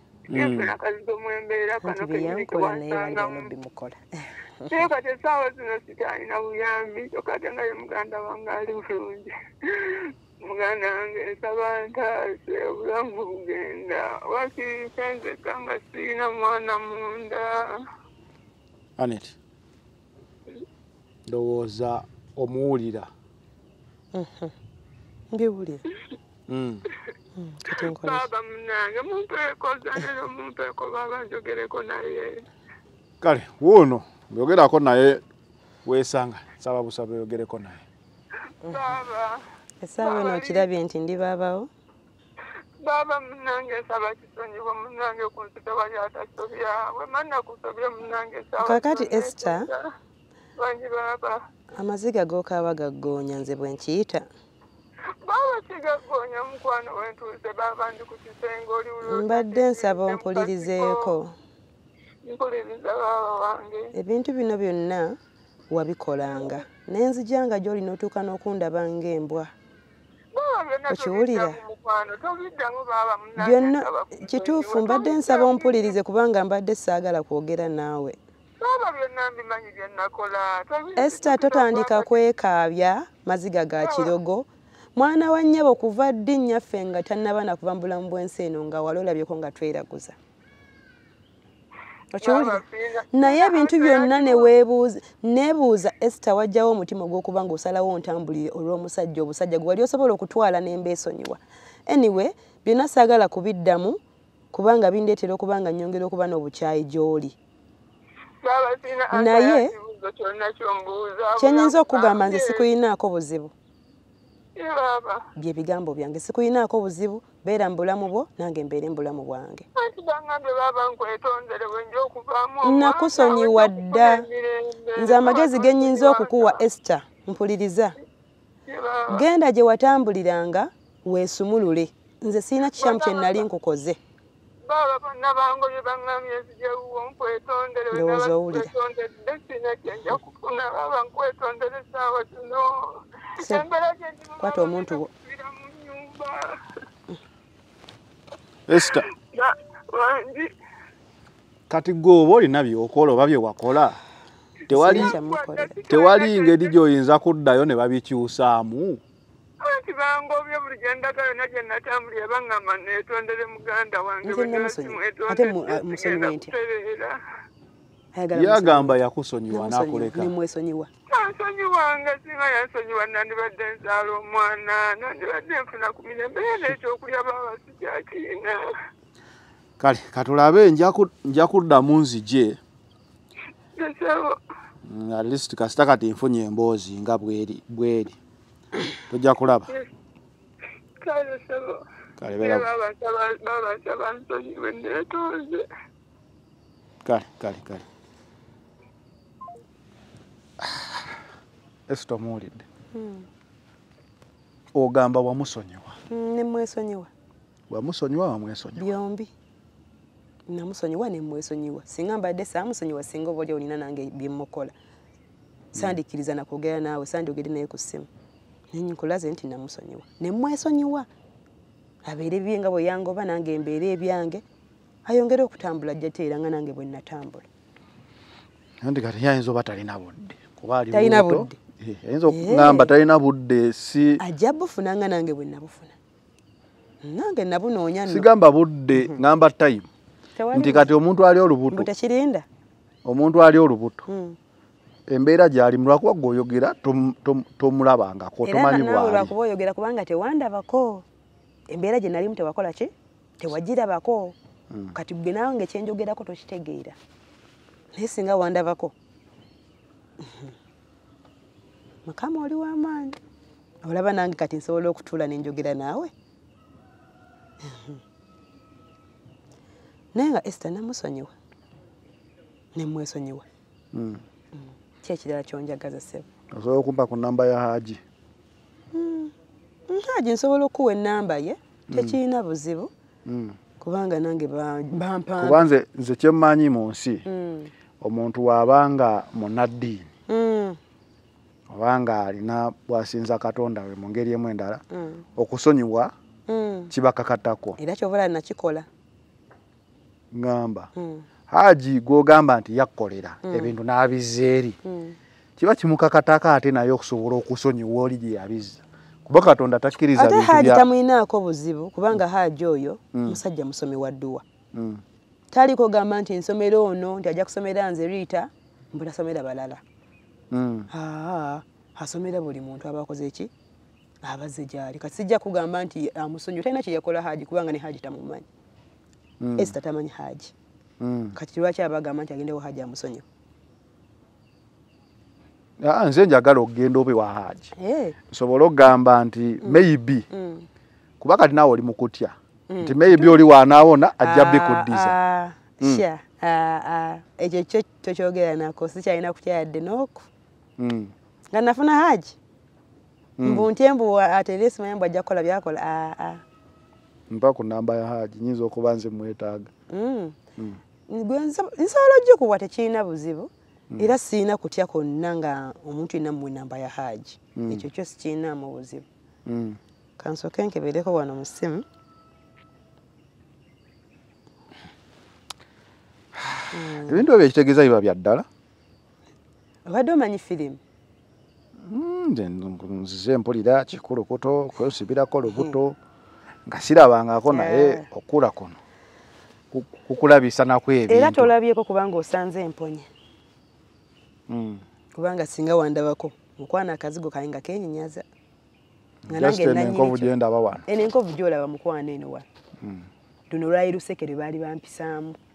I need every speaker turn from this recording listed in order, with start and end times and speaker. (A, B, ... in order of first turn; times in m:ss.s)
0:00.3-0:00.7 A
0:00.3-0:03.5 B
0:01.8-0:04.8 C
0:04.7-0:17.8 B
0:19.0-0:19.4 A
0:21.3-0:23.1 A
0:24.1-0:24.5 C
0:25.3-0:25.8 C
0:26.5-0:26.8 A
0:27.4-0:28.3 C
0:27.7-0:32.4 B
0:33.2-0:35.2 A
0:35.8-0:37.8 A
0:38.6-0:39.4 B
0:39.8-0:41.7 C
0:40.0-0:40.7 B
0:42.8-0:49.9 B
0:48.6-0:49.7 C
0:50.6-0:51.4 B
0:51.7-0:54.3 C
0:55.2-1:01.1 B
0:59.0-1:01.4 C
1:02.2-1:03.9 B
1:03.9-1:05.2 C
1:05.7-1:09.5 C
1:10.3-1:16.0 B
1:10.9-1:11.6 C
1:13.4-1:18.2 C
1:18.6-1:22.1 B
1:21.0-1:30.2 C
1:23.8-1:24.2 B
1:32.1-1:44.0 C
1:32.2-1:34.5 B
1:44.5-1:47.4 C
1:48.4-1:52.7 B
1:49.1-1:49.7 C
1:51.4-1:53.5 C
1:54.6-1:55.2 B
1:55.4-1:59.7 C
1:59.8-2:06.6 B
2:02.6-2:04.3 C
2:05.0-2:08.0 C
2:08.7-2:09.3 B
2:09.1-2:14.0 C
2:12.8-2:13.4 B
2:14.6-2:26.5 B
2:17.9-2:18.7 C
2:23.4-2:23.6 C
2:24.4-2:25.1 C
2:28.7-2:29.1 A
2:28.9-2:30.5 B
2:31.7-2:34.0 A
2:34.7-2:35.2 A
2:34.7-2:35.8 C
2:34.8-2:36.8 B
2:35.9-2:39.0 A
2:39.6-2:47.2 B
2:44.2-2:46.5 C
2:48.2-2:49.0 C
2:48.3-2:50.3 A
2:49.5-2:50.9 C
2:51.1-2:58.7 B
2:59.8-3:02.6 A
3:03.8-3:04.4 B
3:04.9-3:08.2 A
3:09.1-3:09.7 A
3:11.0-3:11.8 B
3:12.2-3:12.7 A
3:12.4-3:15.7 B
3:17.0-3:17.8 A
3:20.6-3:21.0 A
3:21.9-3:22.6 A
3:22.9-3:23.3 C
3:24.7-3:26.0 A
3:26.1-3:27.1 C
3:27.7-3:28.9 A
3:28.8-3:29.3 C
3:30.5-3:34.7 C
3:35.7-3:38.1 C
3:38.7-3:41.1 C
3:42.0-3:44.4 C
3:45.1-3:47.5 C
3:48.8-3:54.2 A
3:50.9-3:51.6 C
3:52.3-3:52.9 C
3:54.2-3:56.0 C
3:57.0-3:58.3 C
3:58.1-3:59.9 A
4:00.4-4:00.9 C
4:00.5-4:01.9 A
4:01.7-4:02.4 C
4:03.0-4:04.0 A
4:04.1-4:04.4 C
4:05.1-4:09.3 A
4:08.4-4:11.0 C
4:11.7-4:14.4 C
4:14.9-4:17.0 C
4:18.0-4:18.9 C
4:20.2-4:20.5 C
4:22.1-4:23.2 C
4:23.8-4:26.1 C
4:27.6-4:28.0 C
4:30.1-4:31.3 C
4:32.8-4:33.4 C
4:33.9-4:34.2 A
4:34.6-4:36.3 C
4:36.5-4:38.0 A
4:38.9-4:39.3 C
4:39.9-4:42.9 C
4:41.9-4:42.2 A
4:43.3-4:43.6 A
4:43.8-4:45.7 C
4:45.4-4:47.2 A
4:47.3-4:47.7 C
4:48.0-4:50.1 A
4:50.3-4:50.8 C
4:51.7-4:54.8 A
4:54.9-4:55.2 C
4:55.4-4:56.1 A
4:56.5-4:56.9 C
4:56.9-4:57.8 A
4:57.8-4:58.9 C
5:00.3-5:00.9 A
5:01.0-5:01.2 C
5:01.5-5:04.8 A
5:03.4-5:03.7 C
5:04.8-5:05.2 C
5:05.6-5:10.9 A
5:10.2-5:14.4 C
5:13.1-5:13.4 A
5:14.7-5:15.0 A
5:15.5-5:19.8 C
5:20.5-5:20.9 A
5:20.9-5:23.5 C
5:24.2-5:28.5 C
5:29.4-5:29.8 A
5:29.6-5:30.5 C
5:31.0-5:31.4 A
5:31.4-5:33.2 C
5:35.8-5:37.7 A
5:37.8-5:38.2 C
5:38.3-5:40.3 A
5:39.6-5:40.7 C
5:41.2-5:45.2 A
5:42.7-5:43.4 C
5:44.2-5:50.3 C
5:50.8-5:51.1 A
5:51.5-5:52.4 C
5:53.4-5:53.7 A
5:53.4-5:56.4 C
5:57.3-5:59.7 A
5:59.9-6:00.4 C
6:01.1-6:09.0 C
6:07.6-6:07.9 A
6:09.5-6:09.8 A
6:10.2-6:11.8 C
6:16.4-6:18.5 A
6:16.7-6:17.3 C
6:19.9-6:20.8 C
6:21.8-6:26.0 A
6:25.5-6:25.8 C
6:26.7-6:28.8 A
6:27.5-6:28.1 C
6:29.7-6:31.5 A
6:31.1-6:33.1 C
6:34.5-6:34.8 A
6:35.2-6:38.2 C
6:39.3-6:40.8 A
6:39.3-6:40.3 C
6:40.9-6:42.5 C
6:42.8-6:43.1 A
6:43.5-6:45.4 C